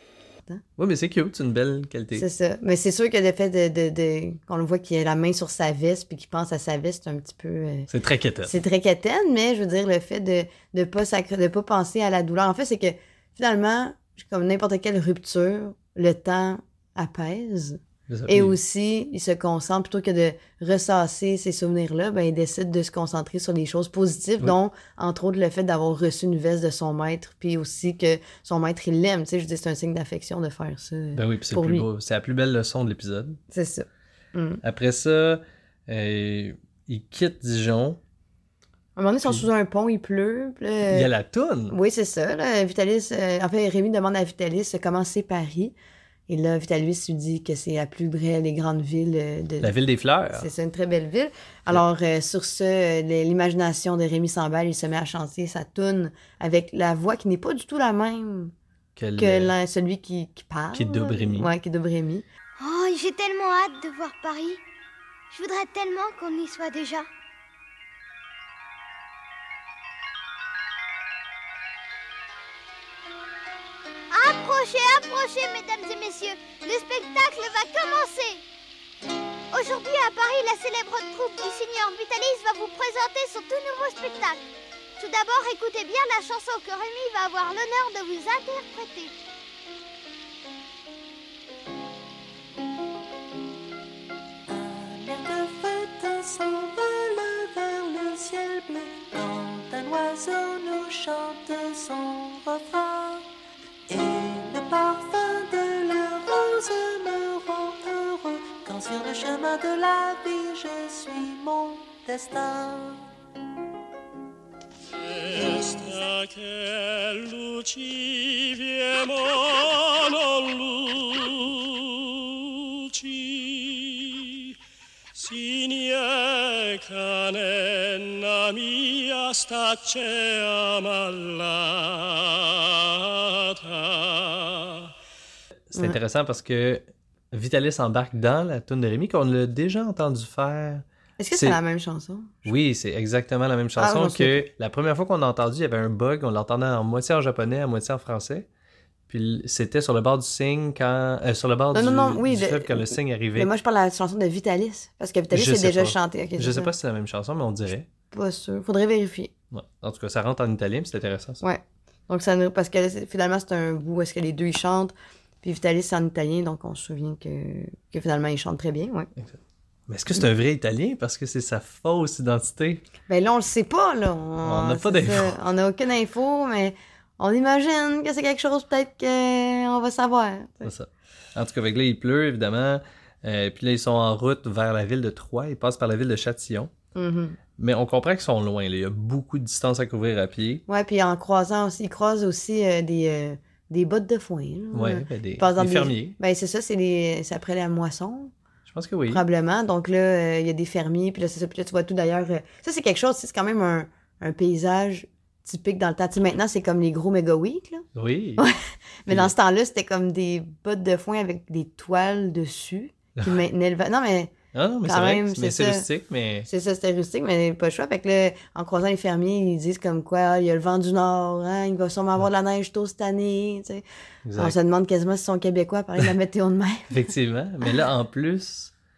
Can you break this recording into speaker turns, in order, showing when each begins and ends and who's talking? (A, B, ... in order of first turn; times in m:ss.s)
0:00.8-0:02.2 A
0:02.1-0:07.9 B
0:07.9-0:08.5 A
0:08.4-0:31.8 B
0:18.1-0:18.6 A
0:31.1-0:33.4 A
0:33.5-0:34.6 B
0:34.6-0:38.0 A
0:39.0-0:41.1 B
0:40.8-0:41.8 A
0:41.7-0:45.7 B
0:46.3-0:49.7 B
0:49.6-0:50.5 A
0:50.3-0:58.5 B
0:59.0-0:59.5 A
0:59.2-1:02.2 B
1:00.7-1:01.5 A
1:02.6-1:04.6 C
1:05.3-1:07.1 C
1:14.1-1:18.4 C
1:19.5-1:24.4 C
1:25.0-1:29.1 C
1:34.5-1:43.3 D
1:43.9-1:53.1 D
1:55.2-2:01.4 E
2:03.2-2:03.7 E
2:05.2-2:12.0 E
2:15.7-2:21.6 A
2:21.2-2:22.3 B
2:22.4-2:28.5 A
2:23.8-2:24.4 B
2:29.1-2:33.5 A
2:31.7-2:36.7 B
2:35.3-2:37.9 A
2:38.1-2:39.3 B
2:39.5-2:41.4 A
2:41.4-2:49.1 B
2:49.2-2:52.8 A
2:53.1-3:00.7 B
2:54.4-2:55.4 A
3:00.6-3:06.7 A
3:06.9-3:07.4 B
3:07.6-3:10.6 A
3:10.7-3:18.3 B
3:14.7-3:16.2 A
3:18.7-3:19.2 A
3:19.1-3:27.8 B
3:27.9-3:28.4 A
3:28.4-3:34.3 B
3:29.1-3:29.3 A
3:34.5-3:36.5 A
3:34.8-3:35.8 B
3:36.5-3:43.8 B
3:44.2-3:44.5 A
3:44.4-3:47.1 B
3:46.9-3:48.7 A